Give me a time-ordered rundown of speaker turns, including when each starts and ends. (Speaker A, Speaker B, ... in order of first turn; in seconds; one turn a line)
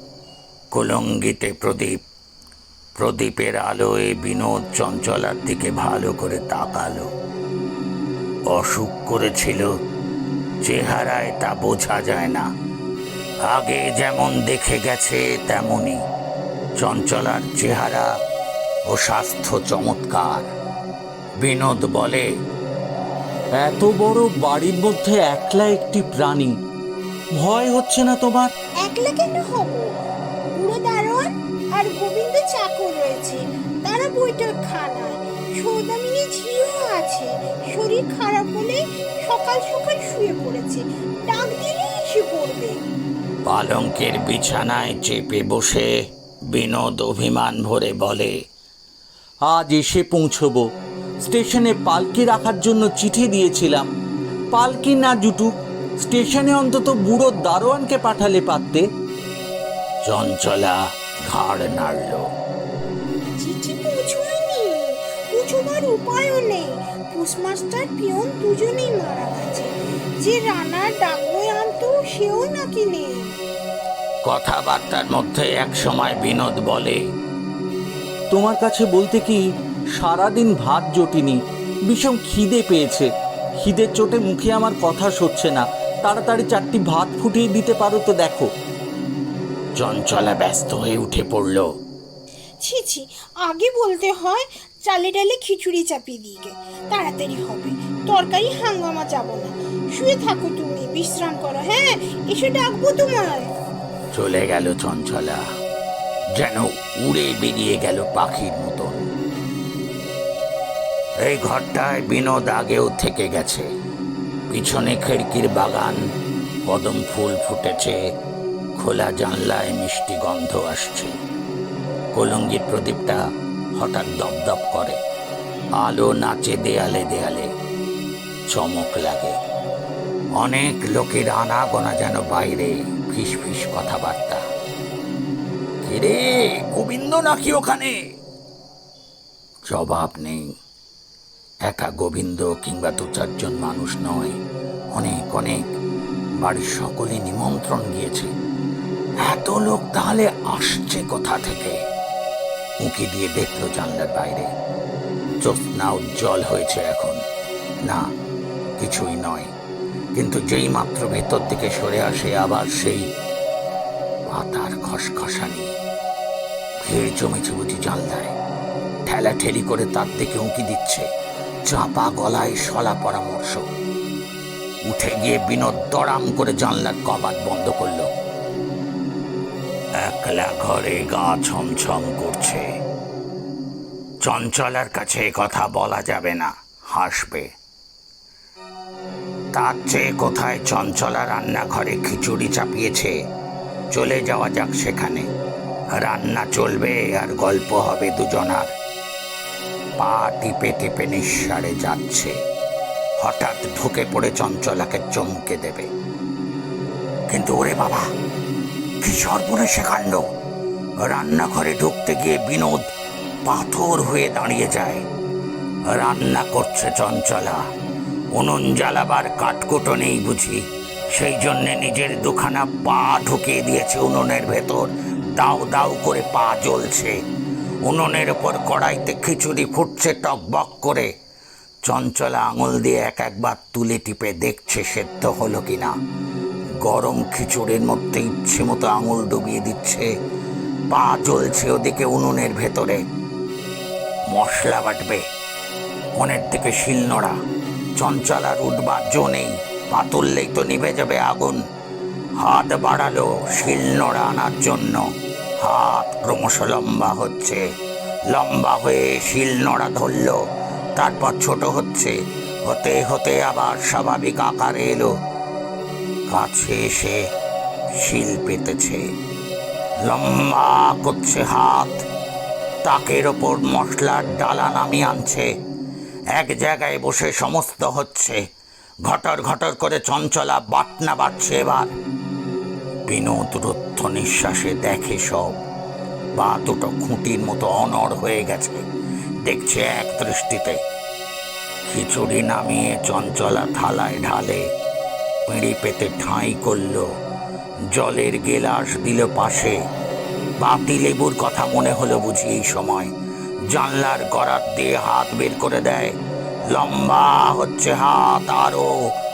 Speaker A: 0.7-2.0
Speaker A: 3.0-7.1
Speaker A: 8.5-9.7
Speaker A: 10.6-12.4
Speaker A: 13.4-16.0
Speaker A: 16.8-18.1
Speaker A: 18.9-20.5
Speaker A: 21.4-22.3
Speaker B: 23.6-26.6
Speaker B: 27.3-28.5
Speaker C: 28.8-29.9
Speaker C: 30.5-42.7
Speaker A: 43.4-45.9
Speaker A: 46.5-48.3
Speaker B: 49.5-50.6
Speaker B: 51.2-53.9
Speaker B: 54.5-58.8
Speaker A: 60.0-62.2
Speaker C: 63.4-69.7
Speaker C: 70.2-73.3
Speaker A: 74.2-77.0
Speaker B: 78.3-79.4
Speaker B: 79.9-88.5
Speaker A: 89.8-91.7
Speaker C: 92.6-103.5
Speaker A: 104.1-105.4
Speaker A: 106.3-109.0
Speaker A: 111.2-113.7
Speaker A: 114.5-116.0
Speaker A: 116.6-118.0
Speaker A: 118.8-121.1
Speaker A: 122.1-123.2
Speaker A: 123.8-125.0
Speaker A: 125.8-127.5
Speaker A: 128.5-129.4
Speaker A: 130.4-134.4
Speaker A: 135.8-138.0
Speaker A: 139.7-140.5
Speaker A: 141.6-144.3
Speaker A: 144.9-145.7
Speaker A: 146.4-148.3
Speaker A: 149.2-151.8
Speaker A: 152.8-154.5
Speaker A: 155.4-157.2
Speaker A: 158.8-159.5
Speaker A: 160.1-163.1
Speaker A: 164.3-165.7
Speaker A: 166.8-168.3
Speaker A: 169.1-171.1
Speaker A: 171.7-173.6
Speaker A: 174.8-178.1
Speaker A: 180.0-182.6
Speaker A: 184.2-187.5
Speaker A: 189.5-193.1
Speaker A: 193.9-195.3
Speaker A: 196.0-198.7
Speaker A: 200.0-202.3
Speaker A: 203.2-205.9
Speaker A: 207.3-208.1
Speaker A: 209.0-210.2
Speaker A: 211.0-212.9
Speaker A: 213.4-215.0
Speaker A: 215.9-217.6
Speaker A: 218.3-227.1
Speaker A: 227.8-231.1
Speaker A: 231.8-235.9
Speaker A: 236.8-240.1
Speaker A: 240.9-243.0
Speaker A: 244.3-245.2
Speaker A: 246.1-247.3
Speaker A: 247.9-251.6
Speaker A: 252.4-255.1
Speaker A: 255.6-257.6
Speaker A: 258.3-260.4
Speaker A: 260.9-265.1
Speaker A: 266.3-267.2
Speaker A: 268.0-269.0
Speaker A: 270.0-272.0
Speaker A: 272.8-275.5
Speaker A: 276.3-278.4
Speaker A: 279.0-281.9
Speaker A: 283.1-285.6
Speaker A: 286.4-288.8
Speaker A: 289.4-290.8
Speaker A: 291.9-294.6
Speaker A: 295.5-297.1
Speaker A: 297.9-299.8
Speaker A: 300.6-303.1
Speaker A: 303.7-306.1
Speaker A: 306.7-308.9